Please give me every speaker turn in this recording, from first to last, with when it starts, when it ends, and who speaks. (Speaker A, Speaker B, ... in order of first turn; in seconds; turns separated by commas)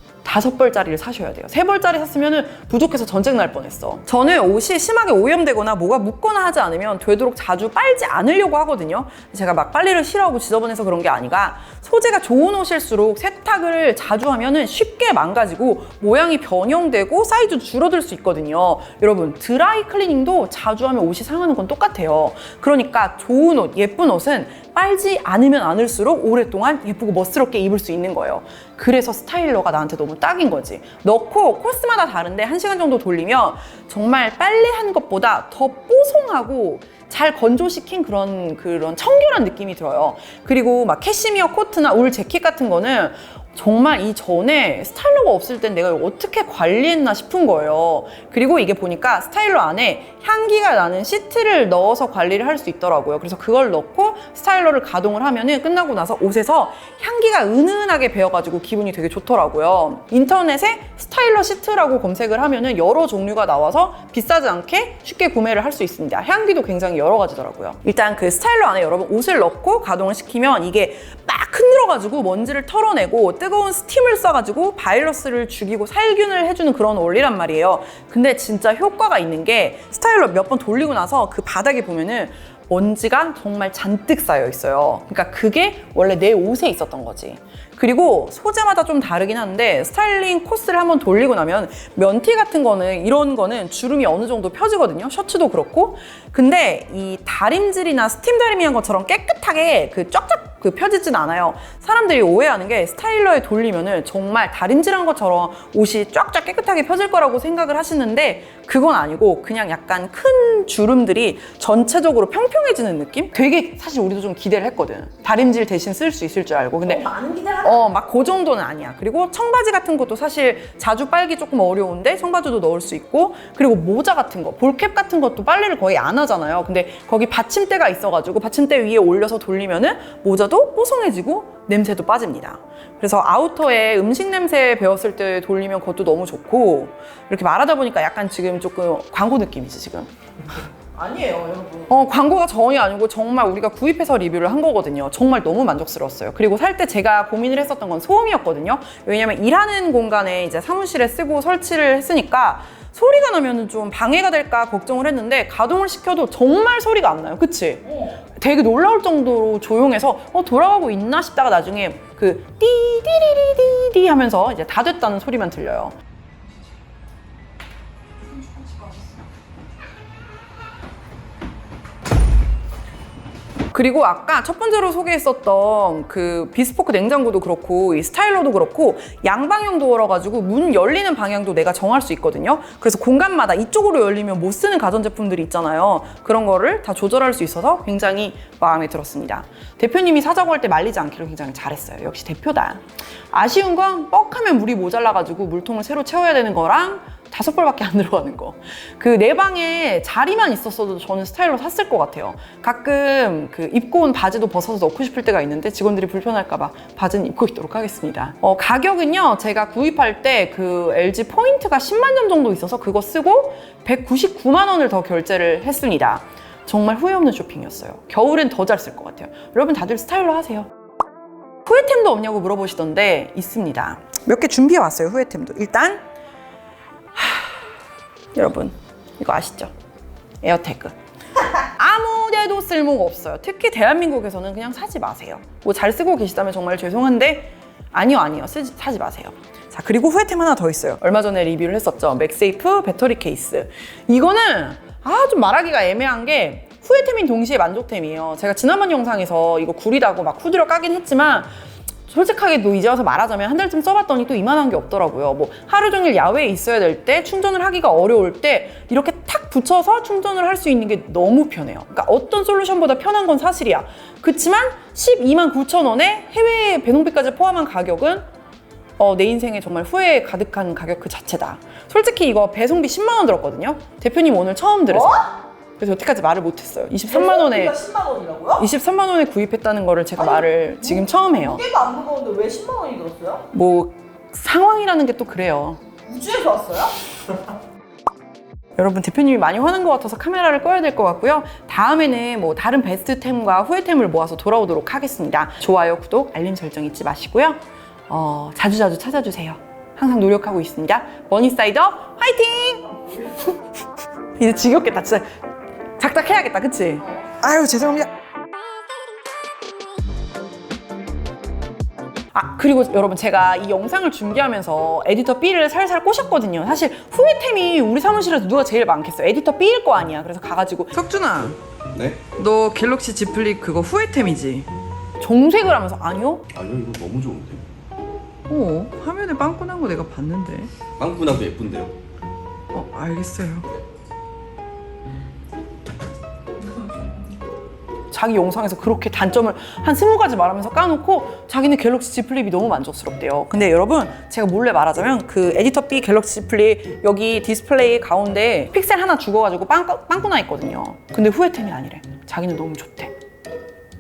Speaker A: 0.2-117.1, Speaker B: 116.8-117.8, Speaker A: 117.6-140.1, Speaker B: 141.0-141.9, Speaker A: 141.9-166.0, Speaker A: 173.7-220.7, Speaker A: 221.7-226.1, Speaker A: 227.2-227.6, Speaker A: 228.3-229.7, Speaker A: 230.4-230.9, Speaker A: 231.8-251.5, Speaker A: 252.1-268.3, Speaker A: 269.0-275.3, Speaker B: 274.9-275.3, Speaker A: 275.8-277.8, Speaker B: 277.1-278.6, Speaker A: 278.6-281.6, Speaker B: 280.2-283.5, Speaker A: 283.5-285.8, Speaker B: 286.1-287.0, Speaker A: 288.8-303.5, Speaker A: 304.4-305.3, Speaker A: 306.0-308.1, Speaker A: 312.3-321.6, Speaker C: 321.9-322.2, Speaker A: 322.3-324.7, Speaker A: 325.2-326.4, Speaker C: 326.5-327.6, Speaker A: 328.5-330.7, Speaker C: 331.0-331.9, Speaker A: 332.7-333.7, Speaker A: 338.1-353.1